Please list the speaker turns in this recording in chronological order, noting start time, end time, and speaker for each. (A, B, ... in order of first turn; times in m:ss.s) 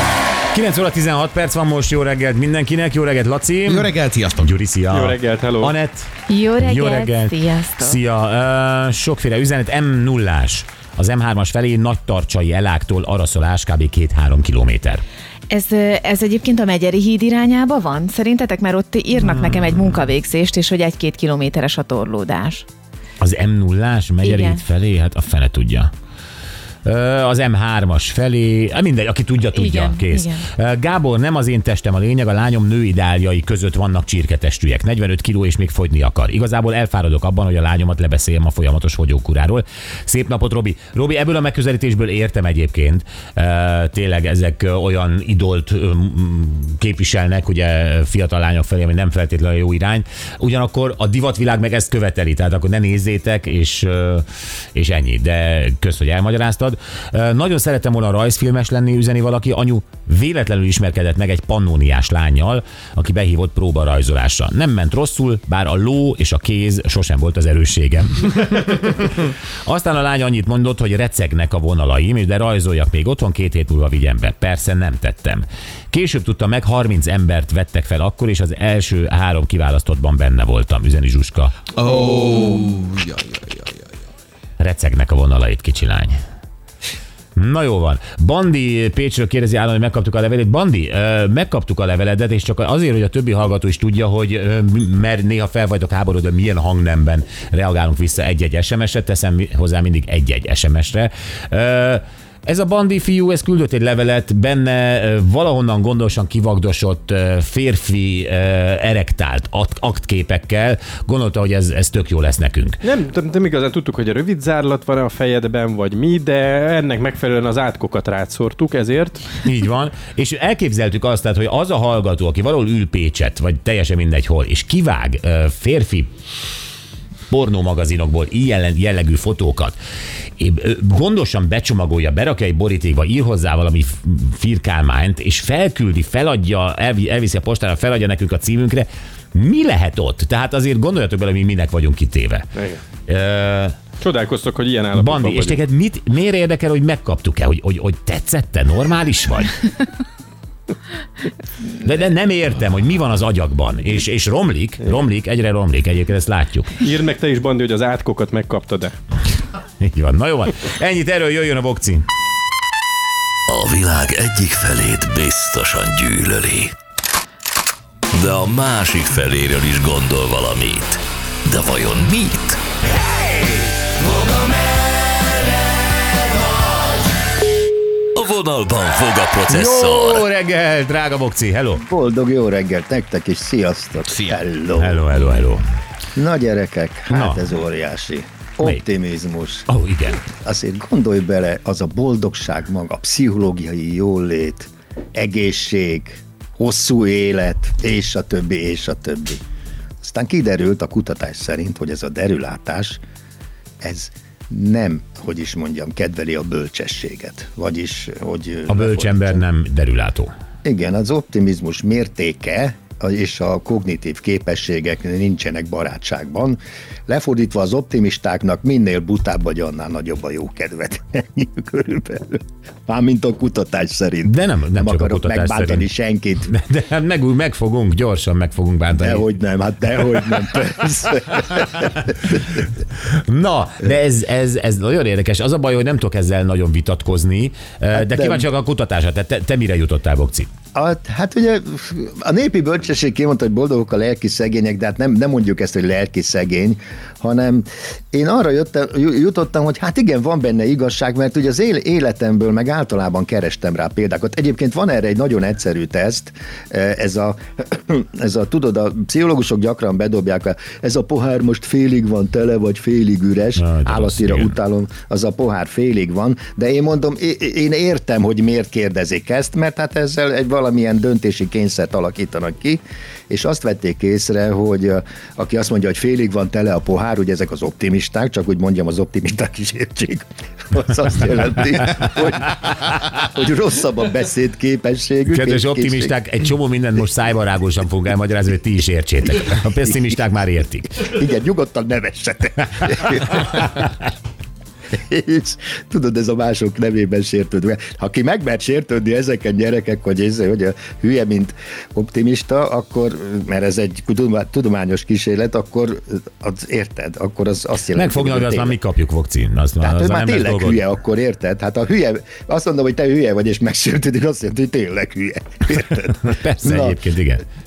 0:00.5-0:15.0 A
0:03.6-0:04.6 B
0:04.9-0:05.7 C
0:06.3-0:08.0 D
0:15.5-0:22.6 D
0:19.2-0:20.0 A
0:23.2-0:25.9 A
0:24.2-0:24.6 D
0:26.8-1:21.5 A
0:29.6-0:30.4 D
1:21.7-1:23.8 B
1:24.6-1:26.1 A
1:27.4-1:52.8 A
1:52.8-1:59.5 C
1:59.4-2:06.1 A
2:07.3-2:09.8 A
2:10.4-2:22.5 A
2:22.5-2:22.8 C
2:23.0-2:23.8 A
2:24.0-2:25.6 C
2:24.9-2:29.5 A
2:31.7-2:36.8 A
2:36.8-2:38.9 C
2:39.8-2:42.0 A
2:43.5-2:46.7 E
2:48.1-2:52.6 E
2:58.1-3:00.2 E
2:59.5-3:01.8 A
3:01.8-3:05.0 F
3:04.1-3:04.4 B
3:04.8-3:05.6 A
3:06.1-3:09.7 F
3:07.1-3:07.5 A
3:09.7-3:10.2 A
3:10.3-3:19.4 F
3:20.0-3:23.0 F
3:23.8-3:29.4 F
3:28.7-3:30.3 A
3:30.6-3:46.5 F
3:44.2-3:45.9 A
3:46.5-3:49.3 A
3:49.0-3:52.6 F
3:53.0-4:00.5 A
3:57.9-3:58.5 F
4:00.7-4:46.2 F
4:23.6-4:24.6 A
4:45.2-4:51.1 A
4:51.0-4:53.9 F
4:53.3-4:53.7 A
4:54.9-5:08.8 F
5:07.9-5:10.8 A
5:09.8-5:17.0 F
5:16.1-5:17.4 A